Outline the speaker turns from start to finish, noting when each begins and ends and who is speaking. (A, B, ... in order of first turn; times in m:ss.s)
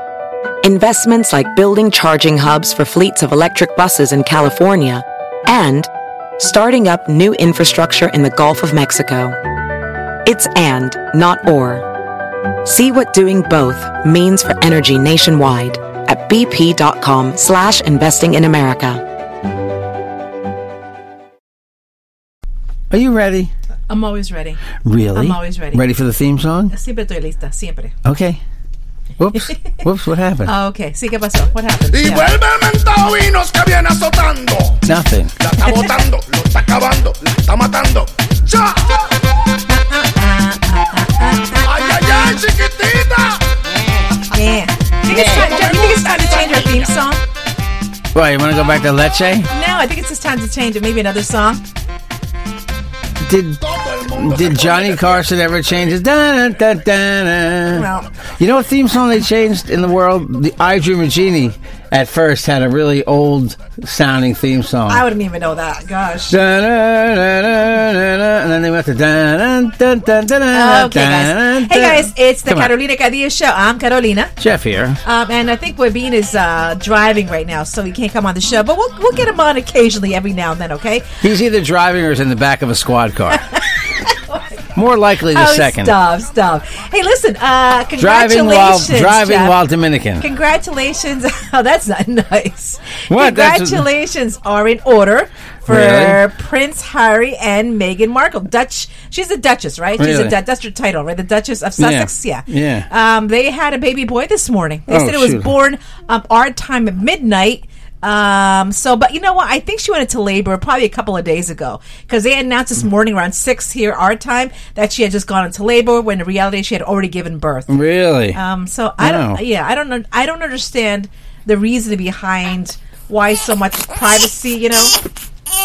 0:00.6-0:09.4 A
0:10.2-0:11.8 A
0:12.6-0:19.0 A
0:22.9-0:23.5 B
0:23.9-0:24.6 C
0:24.8-0:26.7 B
0:25.1-0:25.8 C
0:26.7-0:27.9 C
0:28.0-0:28.4 B
0:29.2-0:30.5 B
0:30.4-0:32.4 C
0:31.9-0:34.8 D
0:34.8-0:35.3 B
0:35.4-0:39.2 D
0:39.7-0:42.4 C
0:41.6-0:43.4 D
0:44.3-0:47.2 C
0:45.1-0:46.9 D
0:48.1-0:49.5 B
0:49.5-0:51.6 C
0:53.2-0:57.9 B
0:53.6-0:55.2 D
0:57.7-0:58.1 C
0:58.4-1:05.1 B
1:04.9-1:06.3 C
1:06.3-1:12.7 B
1:10.5-1:14.3 C
1:14.4-1:15.0 B
1:15.0-1:21.1 C
1:21.2-1:23.4 B
1:23.4-1:24.1 C
1:24.7-1:26.0 B
1:25.3-1:29.6 C
1:28.0-1:30.2 B
1:30.2-1:57.7 C
1:33.1-1:33.9 B
1:35.7-1:36.2 B
1:40.0-1:40.3 B
1:41.8-1:42.9 B
1:44.9-1:45.5 B
1:57.7-1:58.4 B
1:58.3-2:04.9 C
1:59.0-1:59.4 B